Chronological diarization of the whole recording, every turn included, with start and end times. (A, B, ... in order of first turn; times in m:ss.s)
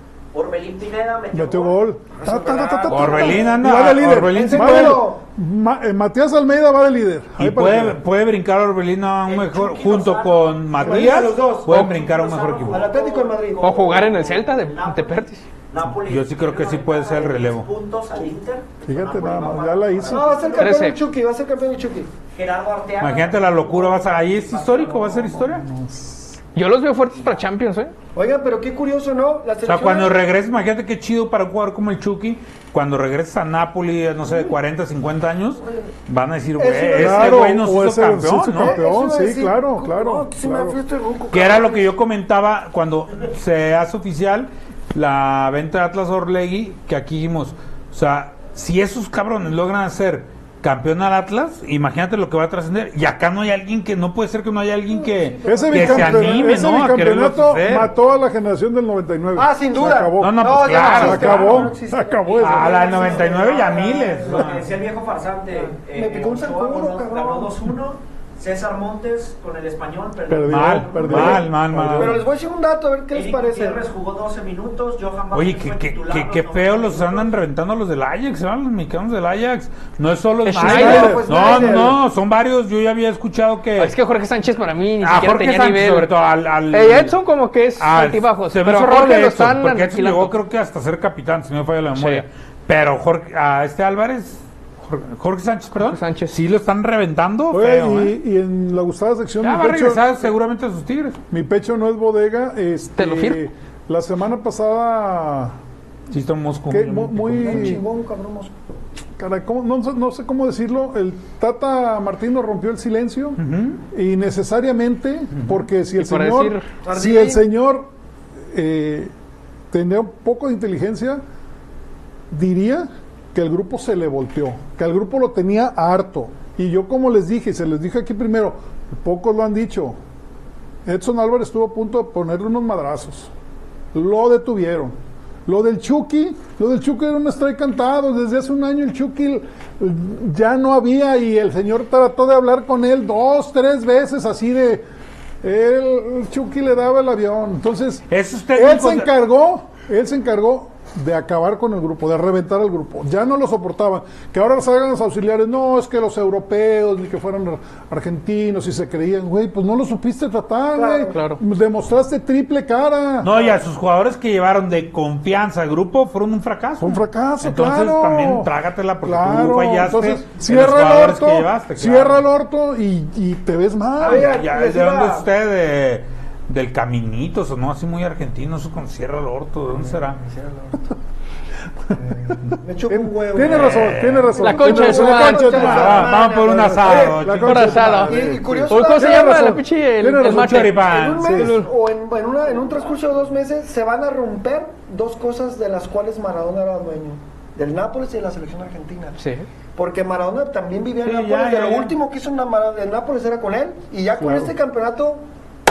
0:00.3-0:03.6 A
0:01.3-0:08.0 B
0:02.2-0:03.5 C
0:02.9-0:05.1 D
0:04.1-0:05.2 C
0:07.4-0:12.9 D
0:09.3-0:20.9 A
0:10.7-0:11.9 C
0:12.7-0:14.1 C
0:13.6-0:15.5 E
0:15.9-0:17.7 D
0:18.9-0:20.5 B
0:20.1-0:22.1 C
0:20.6-0:21.0 E
0:22.3-0:25.3 A
0:23.0-0:25.6 D
0:25.1-0:26.4 B
0:26.6-0:27.9 E
0:27.1-0:27.4 A
0:28.2-0:30.2 C
0:29.6-0:38.8 D
0:36.6-0:37.5 C
0:37.0-0:40.8 B
0:38.6-0:41.9 C
0:41.3-0:57.9 D
0:54.9-0:56.8 C
0:55.5-1:03.0 B
0:59.4-1:04.6 C
1:00.2-1:01.7 D
1:02.4-1:04.7 D
1:02.8-1:11.3 A
1:05.7-1:07.6 C
1:10.3-1:12.2 B
1:10.5-1:12.2 D
1:11.0-1:13.8 C
1:13.1-1:17.4 A
1:15.3-1:23.9 D
1:20.4-1:21.2 E
1:20.6-1:21.9 B
1:20.6-1:22.0 C
1:23.8-1:26.1 E
1:25.0-1:27.2 D
1:26.7-1:30.3 E
1:27.8-1:38.2 D
1:32.0-1:32.2 E
1:35.8-1:36.4 E
1:37.5-1:40.0 B
1:39.4-1:41.2 D
1:41.3-1:45.6 B
1:43.0-1:43.4 E
1:46.1-1:47.8 D
1:46.7-1:47.8 B
1:47.4-1:48.5 C
1:49.2-1:57.9 B
1:53.4-1:53.8 D
1:55.3-1:55.7 D
1:56.0-1:56.7 E
1:56.8-1:57.4 C
1:58.5-1:59.1 B
1:59.7-2:01.2 B
2:02.3-2:10.0 B
2:10.8-2:13.3 B
2:13.9-2:24.8 B
2:25.4-2:28.0 B
2:28.1-2:29.1 D
2:28.6-2:43.3 B
2:40.8-2:41.1 C
2:41.1-2:41.4 E
2:43.2-2:52.2 D
2:46.8-2:48.5 B
2:49.0-2:54.4 B
2:54.0-2:55.3 C
2:54.0-3:00.2 D
2:59.7-3:00.8 C
3:01.9-3:11.6 B
3:01.9-3:07.3 C
3:03.4-3:04.4 D
3:04.4-3:05.9 E
3:05.5-3:08.1 D
3:07.4-3:10.9 E
3:08.1-3:09.5 C
3:10.2-3:11.5 D
3:10.8-3:19.2 C
3:19.2-3:19.5 E
3:19.8-3:25.2 C
3:21.0-3:22.0 D
3:24.2-3:24.5 B